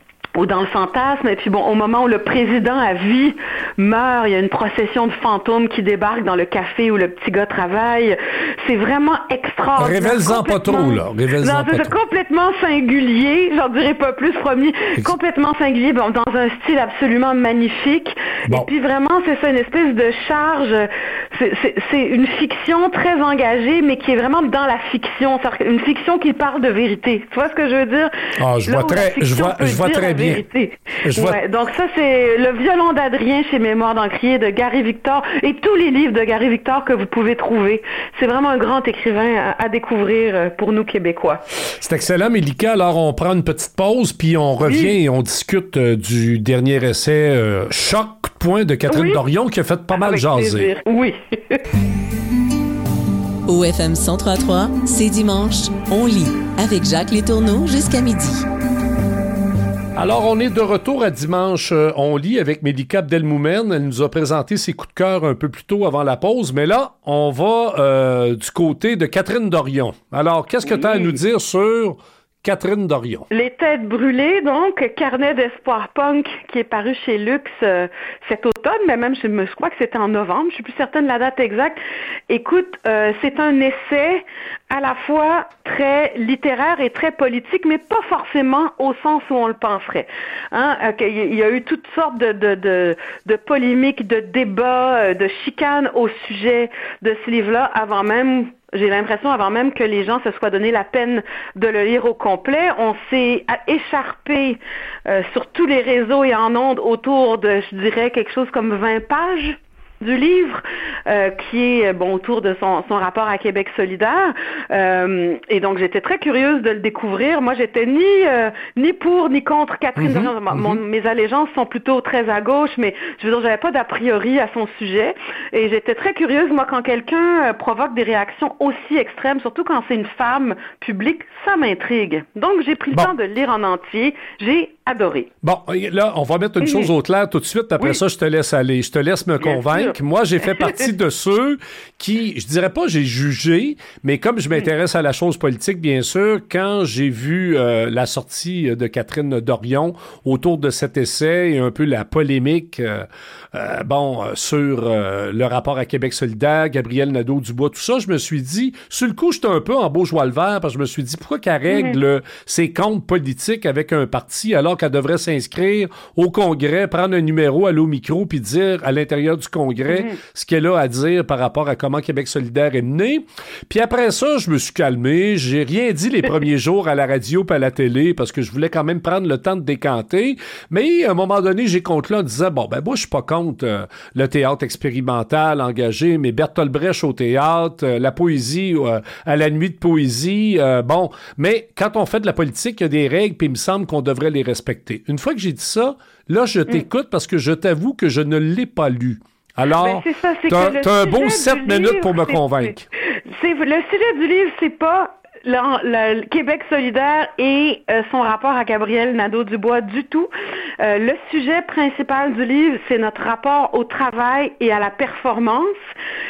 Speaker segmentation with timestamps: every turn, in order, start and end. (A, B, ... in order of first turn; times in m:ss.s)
0:00.3-0:28.1 A
0:09.8-0:11.9 B
0:28.4-0:30.4 B
0:28.6-0:41.4 A
0:31.0-0:31.4 B
0:41.8-0:50.7 B
0:44.6-0:44.9 A
0:48.9-0:49.2 A
0:49.9-0:51.6 A
0:53.5-0:58.4 C
1:00.0-1:13.3 B
1:10.6-1:11.1 A
1:13.3-2:15.3 A
2:00.0-2:00.8 B
2:15.4-3:22.8 B
2:19.4-2:19.9 A
2:41.7-2:42.0 A
3:19.8-3:22.7 A
3:23.3-3:35.7 A